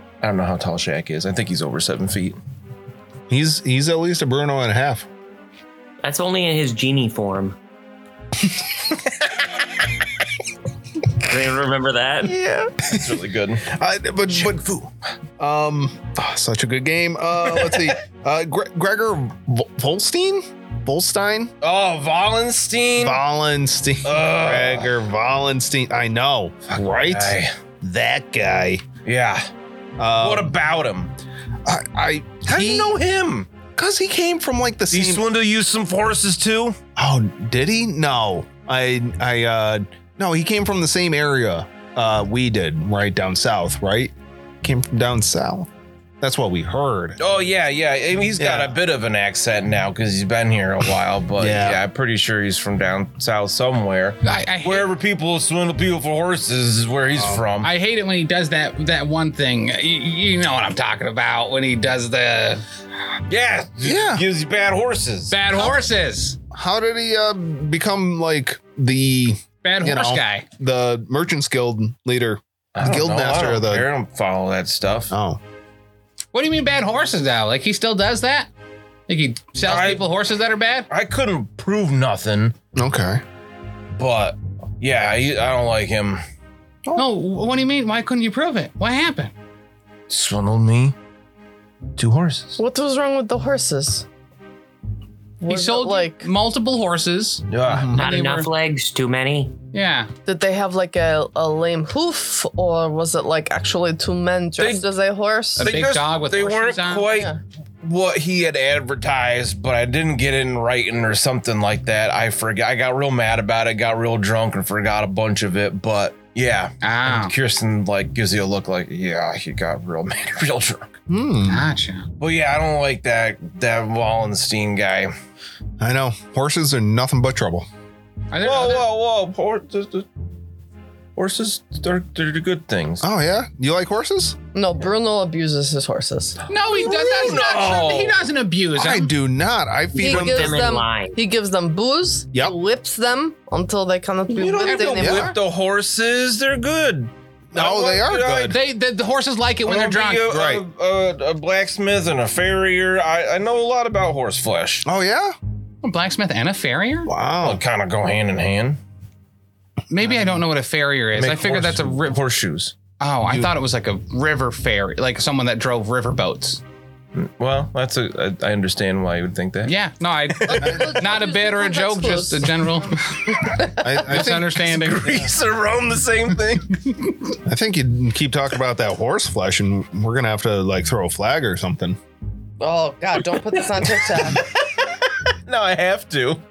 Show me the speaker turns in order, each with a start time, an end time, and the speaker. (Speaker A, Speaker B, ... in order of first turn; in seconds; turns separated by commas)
Speaker A: 0.2-2.4, Speaker B: 3.3-5.1, Speaker C: 6.0-7.6, Speaker C: 11.2-12.4, Speaker A: 12.5-13.6, Speaker B: 12.8-13.1, Speaker B: 13.6-21.5, Speaker A: 21.6-23.2, Speaker B: 23.0-28.9, Speaker A: 24.0-24.9, Speaker A: 26.7-27.5, Speaker A: 29.0-29.5, Speaker B: 30.0-30.5, Speaker A: 30.2-31.1, Speaker B: 31.6-33.0, Speaker A: 32.5-33.5, Speaker B: 33.8-35.2, Speaker A: 34.9-36.8, Speaker B: 37.0-45.7, Speaker B: 46.2-47.2, Speaker A: 47.2-57.7, Speaker B: 48.4-48.8, Speaker B: 51.4-51.8, Speaker D: 54.2-54.9, Speaker B: 57.1-57.4, Speaker D: 57.6-62.6, Speaker A: 63.3-65.3, Speaker B: 63.8-64.2, Speaker D: 65.3-66.4, Speaker B: 66.5-73.9, Speaker D: 69.6-70.4, Speaker A: 72.7-75.1, Speaker B: 75.1-75.4, Speaker D: 76.3-78.5, Speaker D: 79.1-80.9, Speaker A: 79.6-80.1, Speaker A: 80.9-82.5, Speaker B: 82.7-83.2, Speaker A: 84.0-86.2, Speaker D: 87.0-89.3, Speaker A: 90.1-90.9, Speaker A: 92.0-92.6, Speaker E: 92.6-94.0, Speaker E: 95.4-96.2, Speaker D: 95.5-98.5, Speaker A: 97.5-97.9, Speaker B: 97.7-98.0, Speaker C: 97.9-99.6, Speaker D: 99.7-100.1, Speaker E: 100.2-105.8, Speaker A: 104.6-104.8, Speaker D: 105.6-107.1, Speaker A: 105.6-120.9, Speaker D: 116.8-117.3, Speaker B: 121.1-121.6, Speaker D: 121.5-122.1, Speaker A: 122.2-125.1, Speaker B: 125.8-127.7, Speaker D: 128.3-128.8, Speaker A: 128.4-130.1, Speaker A: 131.2-133.0, Speaker B: 133.0-134.4, Speaker E: 134.5-136.4, Speaker D: 136.5-139.1, Speaker A: 136.6-138.2, Speaker B: 138.7-140.6, Speaker C: 140.0-141.2, Speaker E: 140.0-145.4, Speaker A: 144.3-148.5, Speaker D: 144.7-145.0, Speaker B: 145.0-145.3, Speaker B: 147.5-148.6, Speaker D: 148.5-150.3, Speaker A: 149.6-154.8, Speaker B: 150.3-150.6, Speaker B: 154.8-155.3, Speaker D: 155.8-157.1, Speaker B: 157.1-157.6, Speaker A: 157.4-158.8, Speaker D: 159.9-162.2, Speaker B: 160.0-160.4, Speaker A: 161.1-162.8, Speaker D: 163.0-166.6, Speaker A: 167.1-169.8, Speaker D: 169.6-173.4, Speaker A: 170.3-170.9, Speaker E: 170.4-172.5, Speaker E: 173.3-174.0, Speaker B: 173.8-174.7, Speaker D: 173.9-175.2, Speaker A: 174.3-176.8, Speaker B: 177.4-182.0, Speaker E: 182.6-184.5, Speaker A: 184.0-186.4